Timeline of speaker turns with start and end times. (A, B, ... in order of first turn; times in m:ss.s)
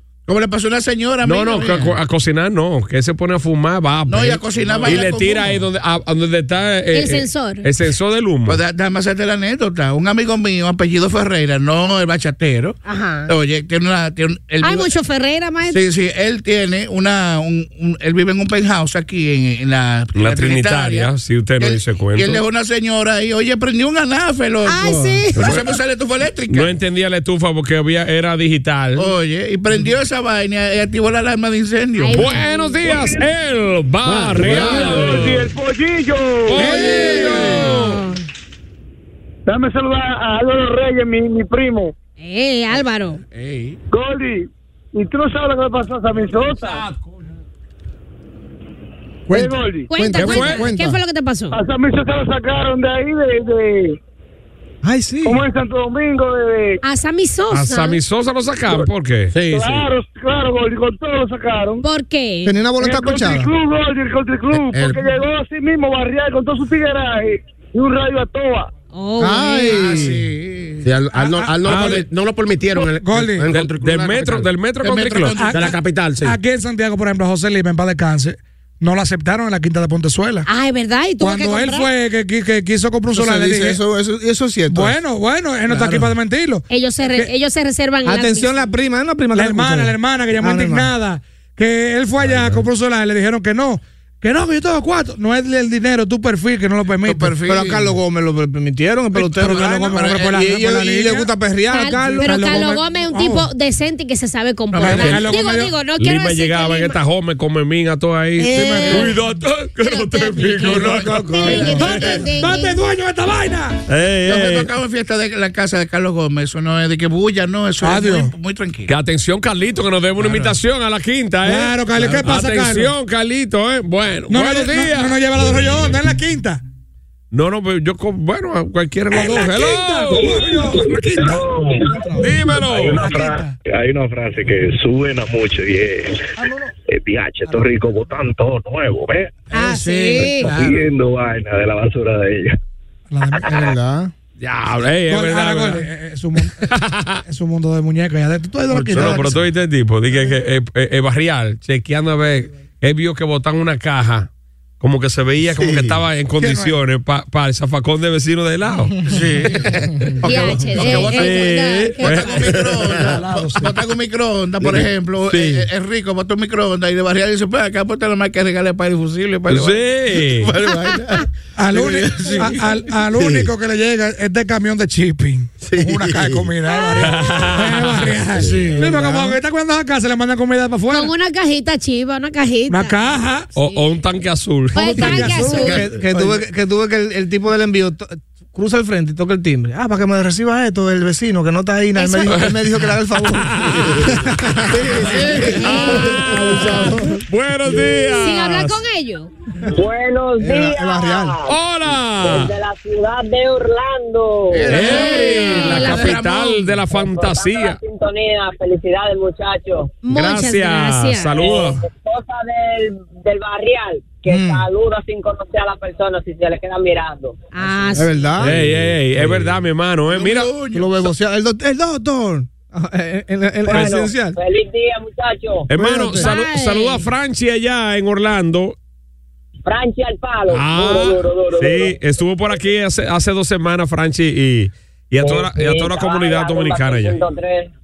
0:00.3-0:02.0 A
0:01.2-0:08.6 B
0:04.1-0:05.6 A
0:06.9-0:07.7 C
0:08.5-0:12.8 A
0:12.8-0:13.3 C
0:13.3-0:14.9 A
0:14.6-0:15.8 C
0:15.7-0:26.7 A
0:20.1-0:22.4 B
0:24.7-0:25.4 C
0:25.4-0:25.7 B
0:26.5-0:29.1 B
0:29.0-0:32.4 A
0:32.0-0:32.8 C
0:32.1-0:35.5 B
0:32.8-0:33.2 D
0:34.0-0:35.0 E
0:34.4-0:36.9 D
0:36.5-0:38.0 B
0:36.6-0:37.6 F
0:37.0-0:38.2 C
0:39.5-0:41.9 D
0:42.2-0:43.2 C
0:43.3-0:43.8 A
0:43.9-0:46.8 D
0:46.5-0:47.0 B
0:49.3-0:51.0 G
0:49.3-0:49.9 D
0:49.9-0:51.6 C
0:50.2-0:50.7 B
0:51.5-0:54.0 D
0:54.8-0:55.4 G
0:55.2-0:56.8 D
0:56.8-0:58.0 C
0:57.5-0:59.3 B
0:58.7-0:59.9 E
0:59.5-1:01.8 D
1:01.8-1:02.5 C
1:02.4-1:03.5 G
1:02.8-1:08.7 D
1:04.5-1:05.1 E
1:08.9-1:09.7 C
1:09.2-1:10.2 G
1:09.6-1:10.9 A
1:10.8-1:14.5 E
1:11.1-1:11.9 F
1:11.6-1:12.1 B
1:11.8-1:12.1 A
1:12.7-1:13.4 F
1:13.5-1:15.4 B
1:14.8-1:15.7 A
1:15.3-1:20.5 F
1:15.5-1:16.4 E
1:20.4-1:21.9 C
1:21.2-1:23.8 F
1:23.1-1:25.0 G
1:24.7-1:27.3 F
1:25.7-1:26.1 G
1:26.7-1:28.5 C
1:28.0-1:30.9 G
1:29.3-1:37.3 F
1:32.3-1:32.6 E
1:37.0-1:38.0 A
1:37.4-1:42.8 G
1:39.2-1:40.4 A
1:39.2-1:41.3 F
1:41.7-1:47.0 C
1:42.0-1:43.5 F
1:44.7-1:45.4 A
1:44.8-1:45.8 F
1:46.0-1:52.2 B
1:48.4-1:49.1 C
1:48.6-1:49.1 A
1:48.7-1:49.0 F
1:49.8-1:50.7 C
1:50.6-1:52.3 A
1:50.9-1:52.0 G
1:51.4-1:52.8 C
1:51.8-1:53.8 F
1:53.9-1:54.7 B
1:54.2-1:59.0 A
1:57.8-1:58.3 F
1:58.9-2:05.1 B
2:00.2-2:00.5 A
2:01.4-2:02.9 F
2:04.3-2:06.6 F
2:07.3-2:10.5 B
2:09.1-2:11.4 F
2:10.7-2:11.9 H
2:12.2-2:13.0 B
2:12.6-2:16.1 H
2:13.0-2:13.6 F
2:16.9-2:19.3 H
2:19.5-2:20.5 C
2:20.1-2:22.6 H
2:20.4-2:20.8 F
2:23.1-2:23.7 F
2:23.5-2:24.1 G
2:24.4-2:25.9 B
2:25.1-2:26.7 F
2:26.4-2:27.2 B
2:27.2-2:29.2 F
2:28.7-2:29.4 E
2:29.0-2:34.3 B
2:34.8-2:39.6 B
2:35.4-2:36.1 E
2:36.4-2:36.7 F
2:39.1-2:52.7 A
2:40.3-2:41.9 C
2:40.7-2:42.5 B
2:42.5-2:43.1 E
2:43.1-2:43.7 F
2:44.6-2:44.9 E
2:45.3-2:45.7 B
2:49.5-2:50.5 B
2:51.6-3:01.1 F
2:53.1-2:53.5 E
2:55.6-2:56.7 E
2:56.7-2:57.5 C
2:57.0-2:58.2 B
2:58.3-2:59.1 E
3:00.9-3:03.9 C
3:02.7-3:03.6 F
3:03.6-3:05.3 B
3:04.7-3:05.7 F
3:04.7-3:05.8 C
3:05.3-3:06.4 E
3:05.5-3:17.2 G
3:12.0-3:12.4 C
3:12.3-3:18.8 B
3:14.9-3:15.8 A
3:18.1-3:19.3 C
3:19.7-3:21.6 I
3:20.4-3:21.4 G
3:21.4-3:22.6 B
3:22.2-3:24.8 I
3:24.5-3:26.8 A
3:24.7-3:27.8 B
3:24.9-3:26.2 C
3:26.9-3:30.0 I
3:30.0-3:31.3 C
3:30.1-3:31.9 B
3:31.3-3:37.8 I
3:34.3-3:34.6 G
3:37.5-3:38.1 C
3:37.9-3:38.6 G
3:38.4-3:40.5 B
3:40.1-3:41.1 A
3:40.7-3:44.4 G
3:43.7-3:45.7 I
3:45.7-3:48.8 B
3:45.8-3:46.4 G
3:46.2-3:47.1 C
3:49.6-3:51.9 I
3:50.5-3:57.2 B
3:55.2-3:57.7 I